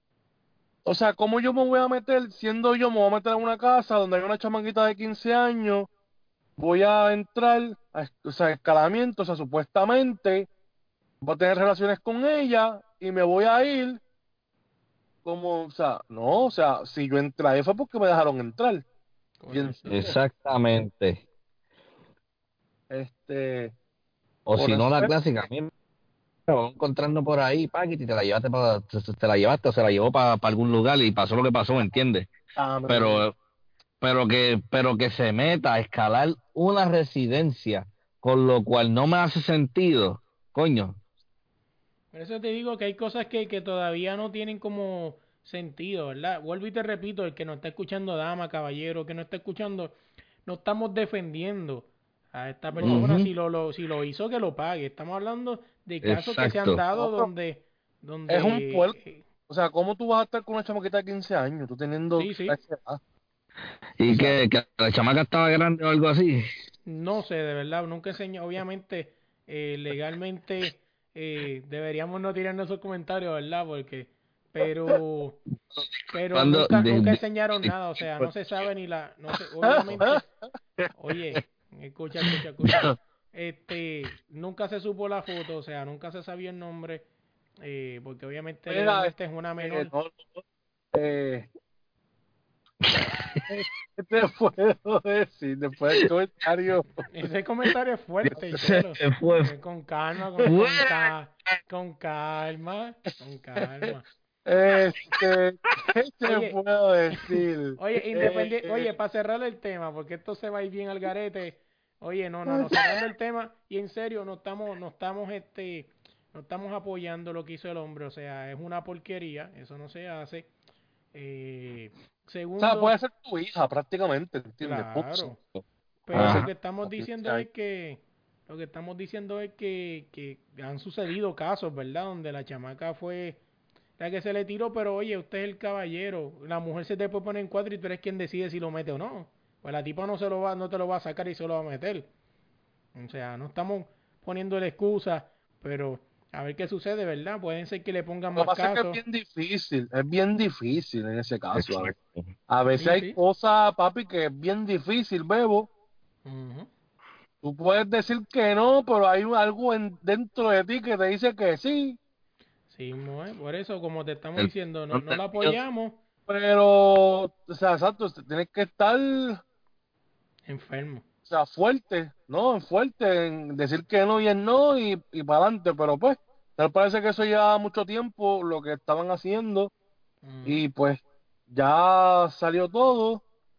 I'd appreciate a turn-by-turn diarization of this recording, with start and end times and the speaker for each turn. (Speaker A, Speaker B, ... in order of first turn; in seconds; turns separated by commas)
Speaker A: 0.9-5.9, Speaker A: 6.6-10.5, Speaker A: 11.2-14.0, Speaker A: 15.2-18.8, Speaker B: 19.4-20.0, Speaker A: 19.5-20.1, Speaker C: 19.9-21.2, Speaker A: 22.9-23.7, Speaker C: 24.5-25.7, Speaker A: 24.6-25.1, Speaker C: 26.5-32.3, Speaker A: 32.6-33.3, Speaker C: 32.9-33.4, Speaker C: 34.0-41.0, Speaker B: 42.1-59.2, Speaker C: 52.8-53.3, Speaker C: 56.0-56.8, Speaker A: 57.0-57.3, Speaker A: 58.3-59.0, Speaker A: 59.5-63.0, Speaker B: 62.2-62.6, Speaker C: 64.0-66.4, Speaker B: 66.9-75.4, Speaker C: 75.7-78.3, Speaker B: 76.1-80.2, Speaker A: 79.6-80.3, Speaker B: 80.9-87.0, Speaker B: 87.6-89.9, Speaker A: 88.7-90.4, Speaker A: 90.9-91.5, Speaker C: 92.8-93.4, Speaker A: 93.5-97.0, Speaker B: 97.1-104.0, Speaker C: 98.3-99.5, Speaker C: 100.5-101.1, Speaker A: 104.5-108.9, Speaker B: 106.2-106.6, Speaker B: 107.3-120.5, Speaker A: 112.5-113.0, Speaker B: 121.1-123.0, Speaker A: 122.6-125.3, Speaker B: 124.6-125.4, Speaker B: 126.0-133.4, Speaker A: 126.1-127.4, Speaker C: 126.2-126.5, Speaker B: 134.0-142.1, Speaker B: 142.9-149.0, Speaker A: 148.4-151.9, Speaker C: 151.6-152.3, Speaker A: 152.5-155.7, Speaker B: 152.8-153.2, Speaker B: 156.2-156.7, Speaker A: 157.4-162.0, Speaker B: 162.7-166.0, Speaker C: 164.4-165.6, Speaker A: 166.3-169.4, Speaker B: 170.5-171.0, Speaker A: 171.3-179.7, Speaker B: 180.2-180.6, Speaker A: 180.4-183.2